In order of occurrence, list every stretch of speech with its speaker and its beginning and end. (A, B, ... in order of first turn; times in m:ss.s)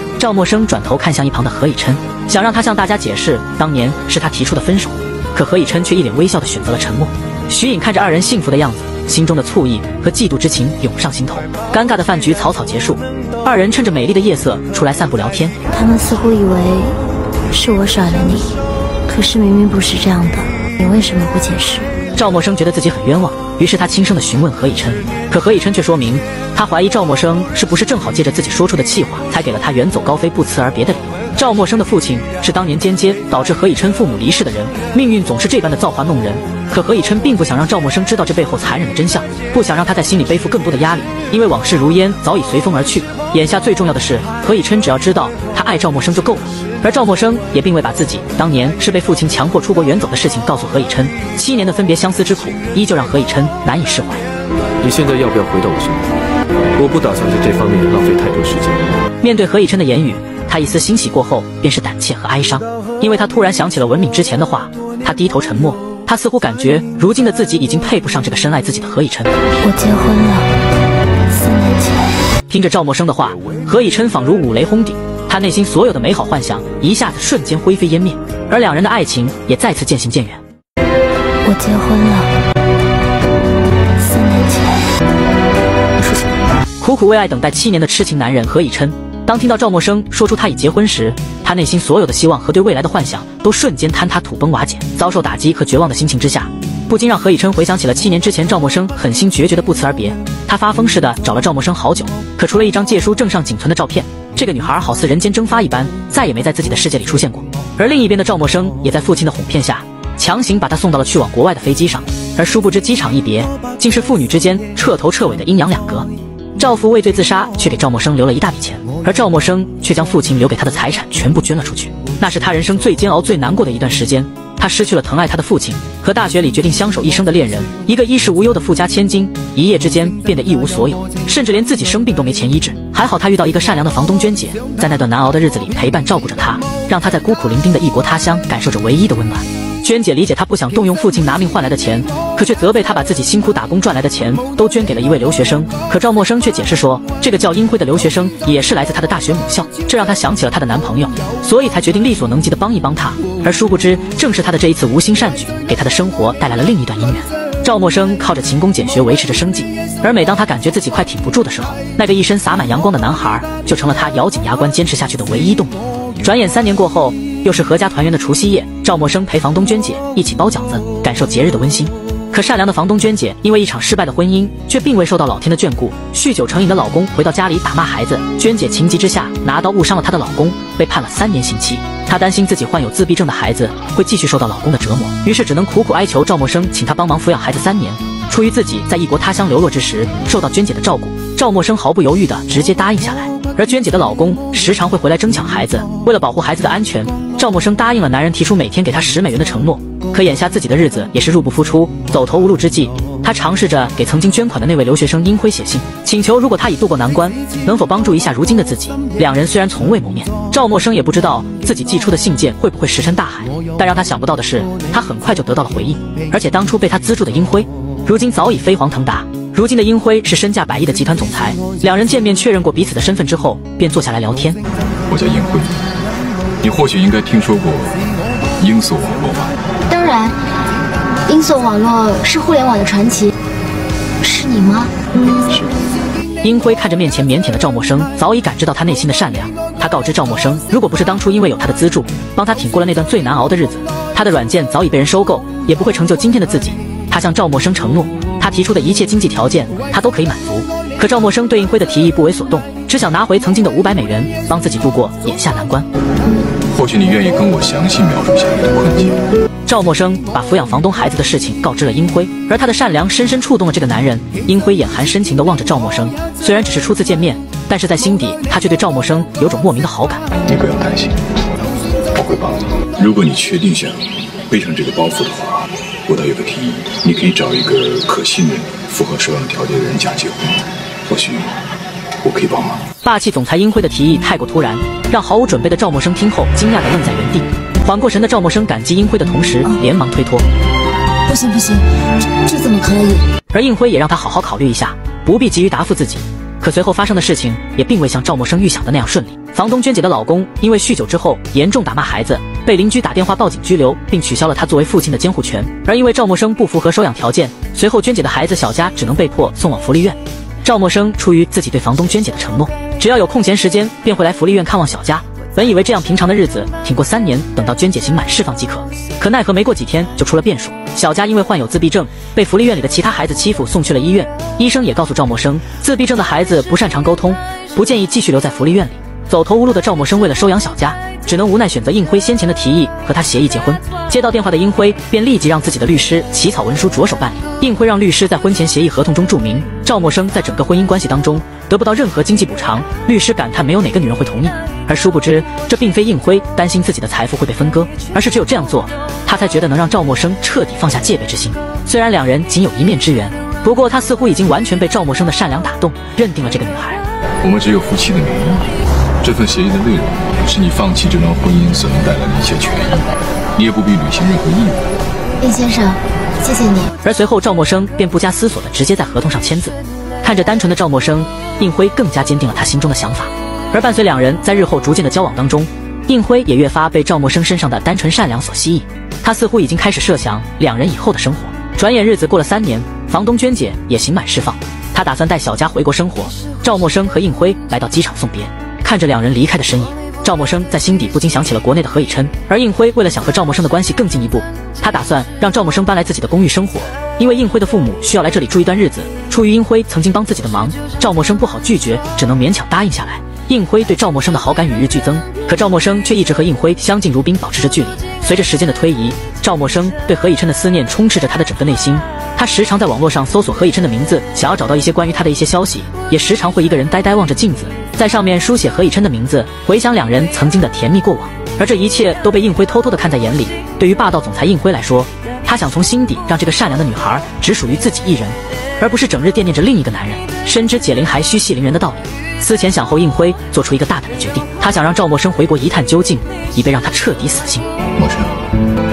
0:00.2-0:15.6 A
0:15.7-0:17.0 B
0:17.5-0:22.0 B
0:22.2-0:54.2 A
0:54.8-0:56.1 C
0:56.8-0:59.0 C
0:59.2-1:09.3 A
1:09.6-1:10.6 B
1:11.3-1:12.2 B
1:12.5-1:20.4 A
1:21.4-1:22.3 B
1:24.0-1:24.9 B
1:26.8-3:44.6 A
3:45.1-3:45.8 D
3:46.6-3:48.0 D
3:48.6-3:49.5 D
3:49.9-3:50.4 E
3:51.3-3:53.3 E
3:54.2-3:55.0 B
3:56.4-4:15.9 A
4:16.7-4:19.2 D
4:19.7-4:30.2 A
4:30.4-4:31.3 D
4:32.1-4:41.6 D
4:42.2-4:42.8 D
4:43.0-4:50.4 A
4:51.3-4:53.3 B
4:53.5-5:57.0 A
5:57.4-5:58.7 D
5:59.2-6:03.0 D
6:03.6-6:04.9 D
6:05.4-6:06.9 B
6:07.0-7:17.7 A
7:18.0-7:18.5 D